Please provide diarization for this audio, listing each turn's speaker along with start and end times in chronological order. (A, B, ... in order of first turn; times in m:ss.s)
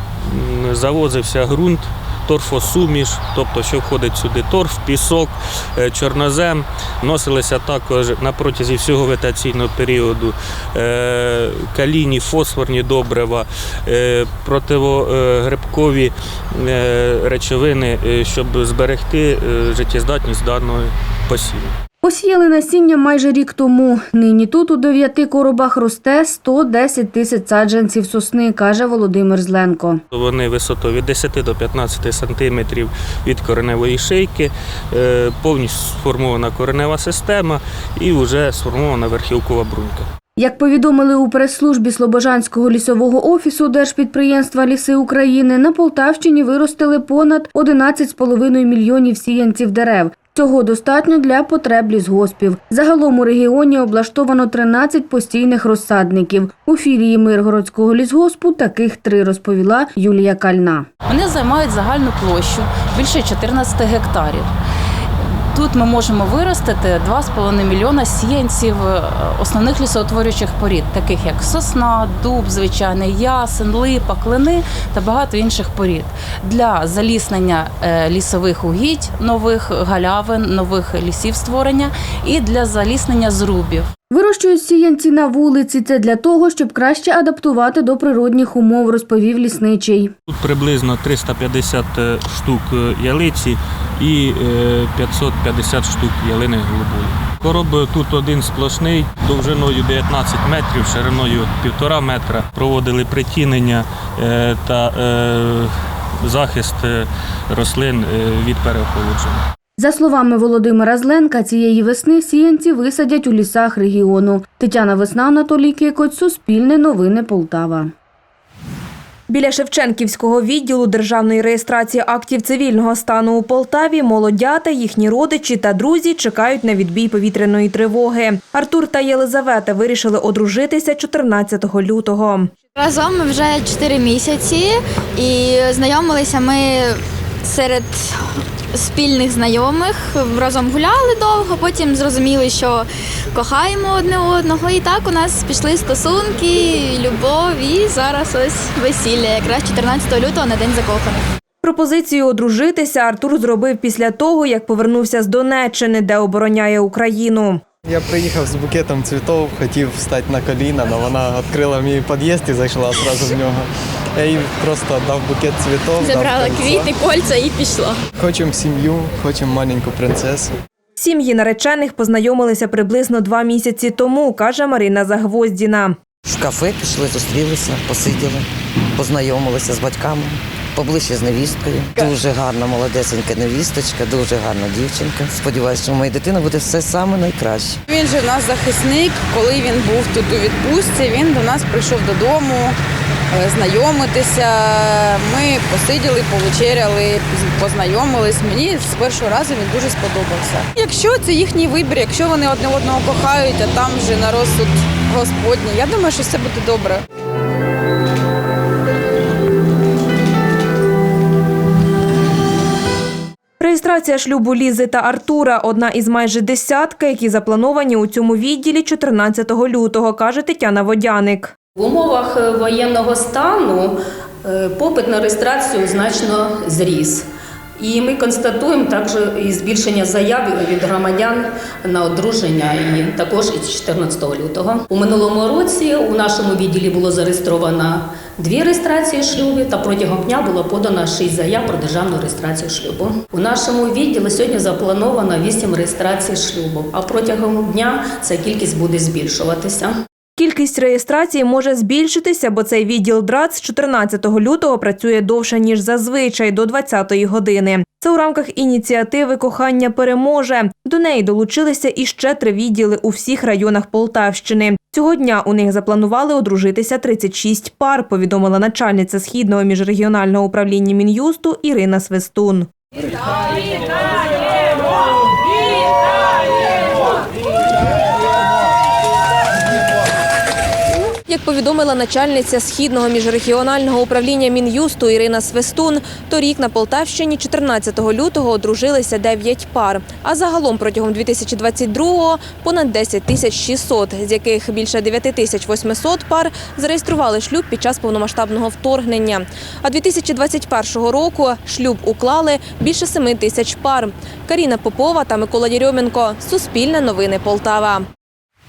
0:00.3-0:21.7 A
0:22.0-0:30.0 B
0:30.1-0:40.1 A
0:40.4-1:00.9 B
1:01.1-1:04.5 C
1:05.5-1:23.9 C
1:24.1-1:30.1 B
1:30.3-1:49.4 A
1:49.8-1:57.9 B
1:59.3-2:12.5 D
2:12.8-2:18.2 E
2:18.7-2:31.2 E
2:31.6-2:37.6 D
2:37.8-2:46.9 F
2:46.0-2:48.0 E
2:48.2-2:50.5 F
2:51.0-2:56.0 D
2:56.3-2:58.4 G
2:59.0-3:07.8 G
3:07.9-3:12.8 H
3:13.3-3:27.0 H
3:33.6-3:41.5 D
3:41.8-3:47.3 I
3:47.8-4:09.9 I
4:10.4-4:32.7 D
4:41.3-5:08.1 D